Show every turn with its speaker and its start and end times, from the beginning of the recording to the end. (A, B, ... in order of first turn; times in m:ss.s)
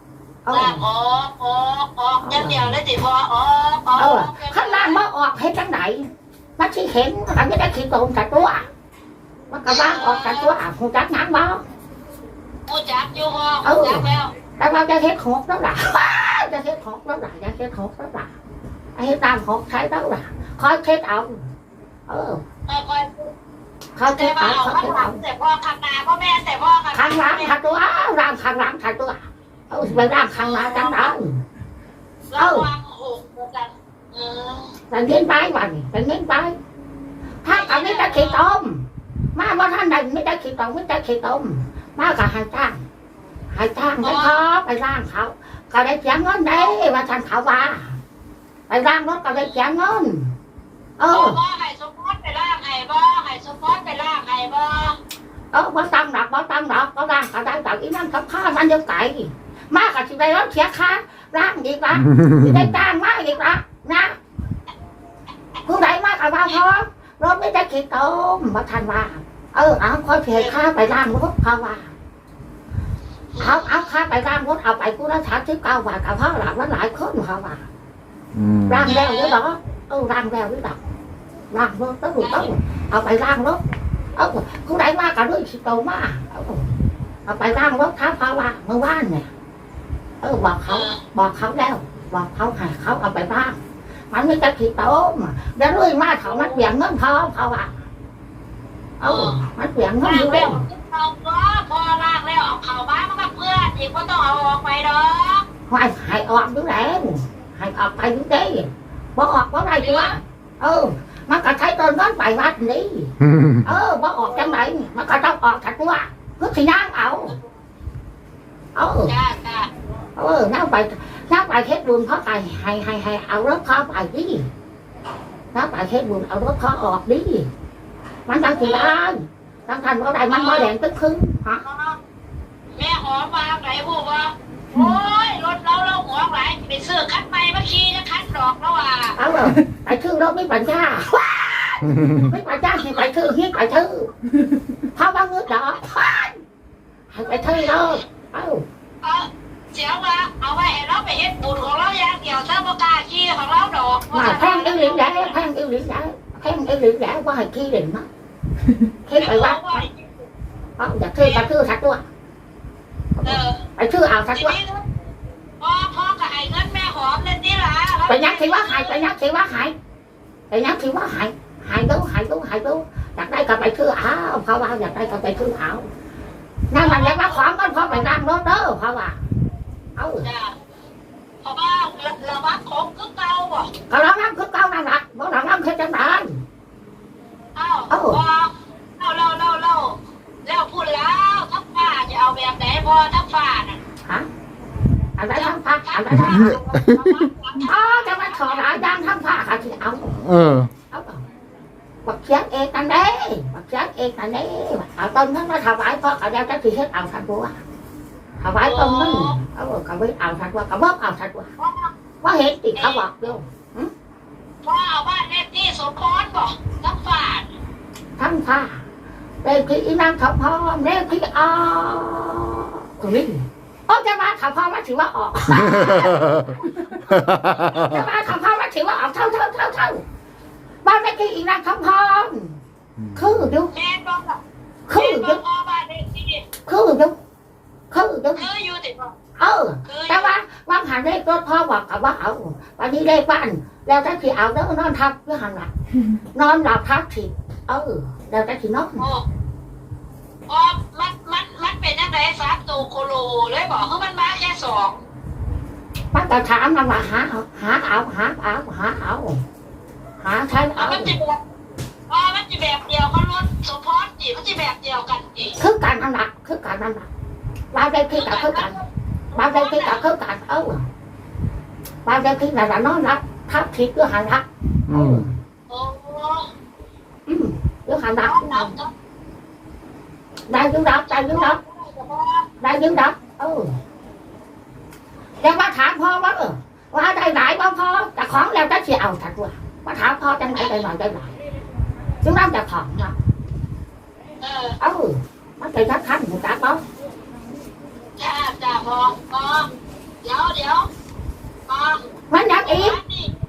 0:00.4-0:00.8 A
0:00.5-0:05.0 B
0:02.2-0:02.7 A
0:04.0-0:08.6 A
0:09.5-0:11.6 A
0:09.7-0:10.6 B
0:12.7-0:14.3 B
0:13.6-0:14.1 A
0:14.6-0:18.3 A
0:19.0-0:21.5 A
0:22.1-0:22.4 A
0:22.7-0:23.3 B
0:24.0-0:25.2 A
0:24.1-0:27.6 B
0:26.9-0:31.4 A
0:29.9-0:31.1 B
0:32.3-0:34.7 B
0:32.4-0:32.7 A
0:34.9-0:36.5 A
0:37.4-0:42.8 A
0:37.5-0:38.4 B
0:43.5-0:48.0 A
0:44.0-0:44.4 B
0:48.7-0:50.3 A
0:51.0-0:51.4 A
0:51.1-0:55.0 B
0:55.5-1:04.2 A
1:02.0-1:02.7 C
1:05.6-1:11.9 A
1:13.3-1:13.6 B
1:13.4-1:17.6 A
1:18.3-1:18.9 C
1:18.7-1:20.8 A
1:18.8-1:19.4 B
1:21.5-1:23.6 A
1:22.2-1:22.5 B
1:24.2-1:26.7 A
1:27.2-1:29.3 A
1:30.2-1:33.6 A
1:30.7-1:31.0 B
1:34.1-1:37.7 A
1:36.3-1:36.6 B
1:39.0-1:40.6 A
1:39.0-1:39.4 B
1:40.0-1:45.4 B
1:45.7-1:57.4 A
1:49.8-1:50.2 B
1:53.2-1:53.6 C
1:58.7-1:59.1 A
1:59.1-1:59.7 B
2:00.2-2:04.5 A
2:05.5-2:07.5 A
2:08.3-2:11.6 A
2:08.5-2:09.0 B
2:10.3-2:10.7 B
2:11.6-2:12.0 B
2:12.8-2:19.2 B
2:19.2-2:21.2 A
2:22.0-2:24.1 A
2:24.9-2:26.3 A
2:27.1-2:28.6 A
2:29.0-2:35.4 B
2:34.1-2:38.1 A
2:39.1-2:39.8 A
2:39.2-2:40.2 B
2:40.8-2:42.0 A
2:41.2-2:41.5 B
2:43.2-2:44.6 A
2:43.2-2:43.6 B
2:44.3-2:44.8 B
2:45.6-2:49.0 B
2:48.1-2:49.7 A
2:50.5-2:55.9 A
2:56.7-2:59.2 A
2:56.8-2:58.1 B
3:00.0-3:00.3 A
3:00.2-3:00.6 B
3:01.4-3:03.7 B
3:03.9-3:06.4 A
3:07.5-3:13.8 B
3:07.9-3:08.2 A
3:15.2-3:16.6 A
3:15.3-3:18.7 B
3:16.2-3:17.1 C
3:17.6-3:20.3 A
3:20.2-3:20.7 C
3:20.9-3:21.2 A
3:22.0-3:27.6 A
3:28.4-3:31.5 A
3:28.6-3:29.4 B
3:31.6-3:31.9 B
3:32.2-3:33.9 A
3:32.8-3:33.0 B
3:34.6-3:37.5 B
3:38.2-3:38.8 A
3:39.4-3:46.4 A
3:45.6-3:46.4 C
3:47.1-3:48.0 C
3:47.7-3:50.0 A
3:50.8-3:52.6 A
3:53.0-3:53.5 C
3:53.2-3:53.7 A
3:53.7-3:54.4 B
3:54.9-3:55.4 A
3:54.9-3:56.4 B
3:56.7-3:57.2 A
3:57.9-3:58.5 A
3:58.4-3:59.1 B
3:59.4-4:05.7 A
3:59.8-4:00.3 B
4:06.3-4:09.0 A
4:09.0-4:09.2 B
4:10.5-4:15.0 B
4:16.1-4:19.4 A
4:20.2-4:21.1 A
4:20.8-4:21.4 B
4:22.1-4:25.6 B
4:25.6-4:27.1 A
4:27.7-4:28.8 A
4:28.1-4:28.8 B
4:29.3-4:30.0 B
4:29.3-4:30.8 A
4:32.0-4:35.4 A
4:34.9-4:35.2 C
4:35.7-4:36.5 B
4:37.3-4:38.7 A
4:38.2-4:38.9 B
4:40.5-4:41.6 A
4:41.1-4:42.5 B
4:42.6-4:43.8 A
4:45.4-4:51.3 A
4:52.2-4:53.2 A
4:54.4-4:54.8 B
4:54.8-4:56.8 A
4:58.2-4:59.7 B
5:00.2-5:00.9 B
5:01.7-5:02.0 B
5:02.3-5:03.0 A
5:02.6-5:03.3 B